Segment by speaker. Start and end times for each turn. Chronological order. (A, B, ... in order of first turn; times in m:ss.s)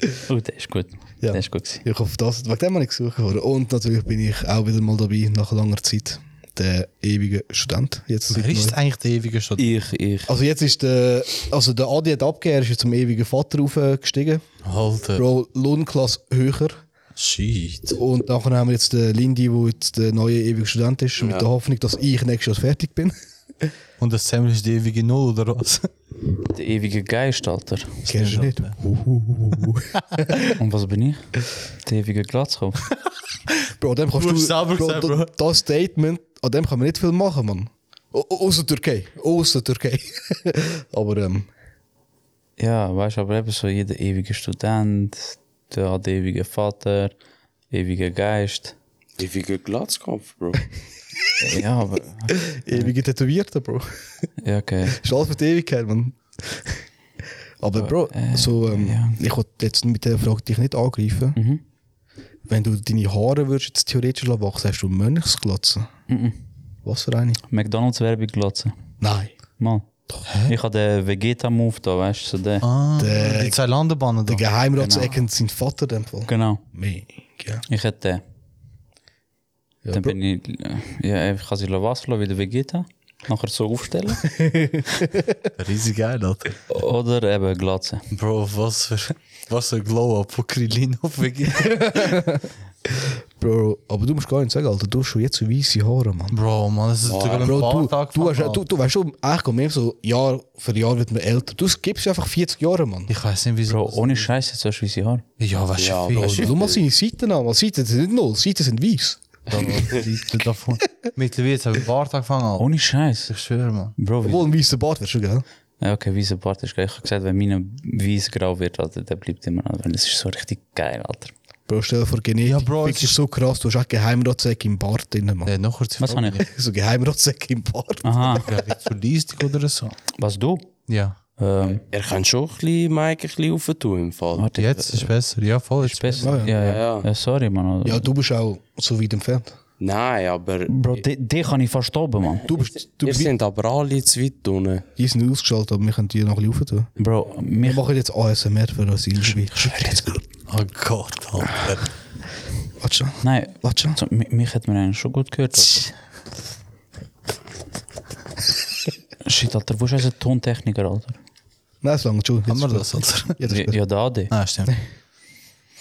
0:00.3-0:01.8 A
0:01.2-0:08.8 B
0:08.3-0:09.7 C
0:09.6-0:10.2 D
0:09.8-0:10.2 A
0:10.2-0:14.4 B
0:14.6-0:15.2 C
0:15.1-0:16.8 B
0:17.2-0:18.0 C
0:18.0-0:23.1 B
0:21.2-0:21.4 D
0:24.0-0:25.9 C
0:26.5-0:28.0 A
0:28.0-0:28.8 C
0:28.1-0:30.6 B
0:30.5-0:31.3 A
0:31.8-0:32.8 A
0:33.8-0:41.5 B
0:34.1-0:35.3 C
0:42.6-0:47.1 A
0:47.7-0:48.7 A
0:49.2-0:50.7 D
0:51.4-0:52.9 A
0:52.3-0:53.9 B
0:54.4-0:55.0 A
0:54.9-0:56.8 B
0:57.6-1:01.4 B
0:57.8-0:59.2 A
1:01.4-1:01.6 A
1:02.5-1:05.9 B
1:06.1-1:06.4 A
1:06.8-1:07.4 B
1:07.5-1:08.7 A
1:09.0-1:09.4 B
1:09.6-1:09.8 A
1:10.3-1:10.6 C
1:10.4-1:12.7 A
1:12.6-1:14.5 C
1:13.0-1:13.6 B
1:14.3-1:17.6 B
1:14.8-1:15.2 A
1:16.2-1:16.6 A
1:17.7-1:18.2 A
1:19.8-1:20.2 B
1:19.9-1:24.4 A
1:24.3-1:25.2 B
1:25.5-1:26.6 C
1:26.7-1:28.0 A
1:28.1-1:32.0 C
1:31.6-1:36.4 B
1:36.3-1:38.6 C
1:37.0-1:37.6 D
1:37.4-1:43.1 B
1:43.1-1:44.3 C
1:43.7-1:45.2 A
1:45.4-1:46.5 C
1:45.8-1:46.8 D
1:46.2-1:49.7 B
1:49.5-1:52.7 C
1:49.6-1:50.0 D
1:52.6-1:53.3 A
1:53.3-1:53.9 C
1:54.0-1:54.4 A
1:54.2-1:55.4 B
1:55.8-2:01.3 A
2:01.7-2:05.5 B
2:02.4-2:03.2 C
2:05.4-2:06.4 C
2:06.0-2:06.4 A
2:06.4-2:08.5 B
2:08.0-2:08.5 A
2:08.3-2:10.0 C
2:10.2-2:10.7 A
2:10.9-2:11.2 C
2:11.4-2:11.8 A
2:11.6-2:14.4 D
2:14.4-2:15.1 A
2:14.6-2:16.4 C
2:15.8-2:18.1 A
2:16.2-2:16.5 B
2:16.6-2:17.1 D
2:17.8-2:19.6 B
2:19.8-2:21.0 D
2:20.7-2:22.5 A
2:22.4-2:23.3 B
2:23.0-2:24.8 D
2:25.0-2:26.9 B
2:27.0-2:27.8 A
2:27.6-2:30.2 B
2:29.4-2:30.1 A
2:30.5-2:31.9 C
2:32.8-2:34.0 B
2:33.2-2:35.9 A
2:39.2-2:41.2 A
2:41.8-2:43.8 B
2:42.5-2:43.4 C
2:43.5-2:44.3 A
2:44.3-2:44.7 C